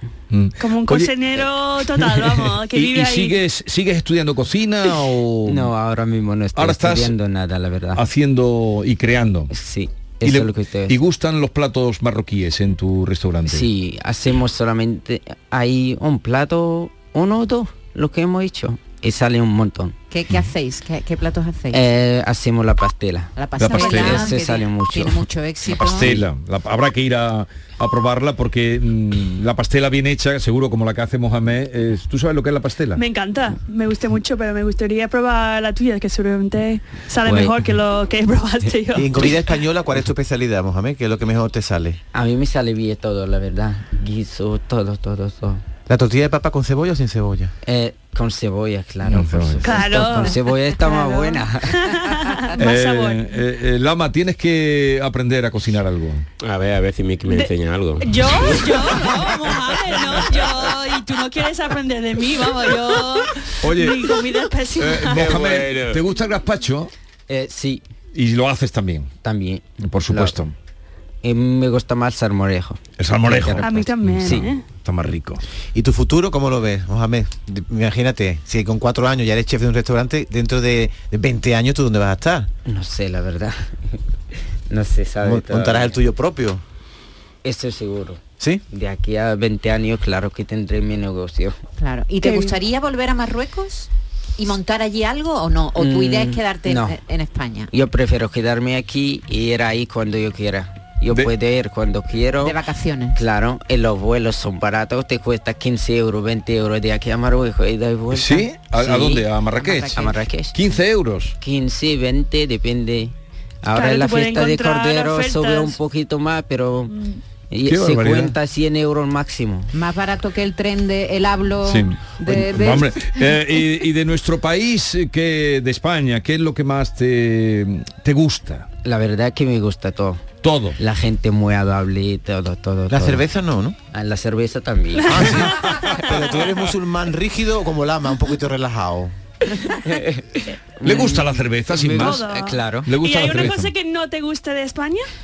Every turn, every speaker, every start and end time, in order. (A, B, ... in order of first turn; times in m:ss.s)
0:00.3-0:05.7 A
0:00.6-0:03.4 B
0:05.4-0:08.0 C
0:06.6-0:07.1 A
0:07.9-0:09.5 A
0:09.5-0:11.0 C
0:10.2-0:13.7 A
0:13.5-0:20.0 C
0:20.1-0:21.8 D
0:21.7-0:25.2 C
0:23.4-0:26.2 D
0:23.6-0:24.3 A
0:25.6-0:33.0 A
0:33.0-0:39.4 B
0:37.2-0:37.7 C
0:38.9-0:42.0 E
0:42.1-0:45.6 C
0:45.9-0:47.5 E
0:47.6-0:52.1 C
0:49.0-0:49.6 A
0:49.6-0:53.3 B
0:52.6-0:56.3 A
0:56.4-0:59.4 F
0:57.3-1:05.4 B
1:00.0-1:00.7 F
1:03.6-1:04.2 A
1:04.8-1:06.9 A
1:05.0-1:06.0 F
1:07.3-1:07.8 C
1:08.1-1:09.1 A
1:09.2-1:10.4 C
1:09.8-1:10.5 A
1:11.2-1:14.5 C
1:13.0-1:15.4 A
1:13.6-1:14.6 B
1:15.7-1:22.5 E
1:22.6-1:24.0 C
1:24.7-1:26.0 C
1:25.2-1:26.6 E
1:27.4-1:31.6 C
1:31.8-1:37.7 D
1:32.2-1:32.6 B
1:35.8-1:37.0 C
1:37.7-1:42.6 C
1:42.4-1:43.2 D
1:43.1-1:49.2 C
1:48.1-1:51.4 A
1:48.9-1:50.1 D
1:49.9-1:50.6 C
1:51.4-1:56.9 C
1:53.7-1:55.8 B
1:57.5-1:59.7 C
1:57.6-1:58.4 A
1:59.7-2:03.1 D
2:01.6-2:08.7 A
2:08.8-2:10.2 C
2:10.4-2:10.8 A
2:10.8-2:13.3 C
2:12.9-2:13.8 E
2:13.9-2:15.7 C
2:15.0-2:16.5 B
2:15.1-2:19.1 E
2:19.5-2:22.9 C
2:20.8-2:22.2 A
2:21.9-2:25.1 B
2:22.8-2:23.7 A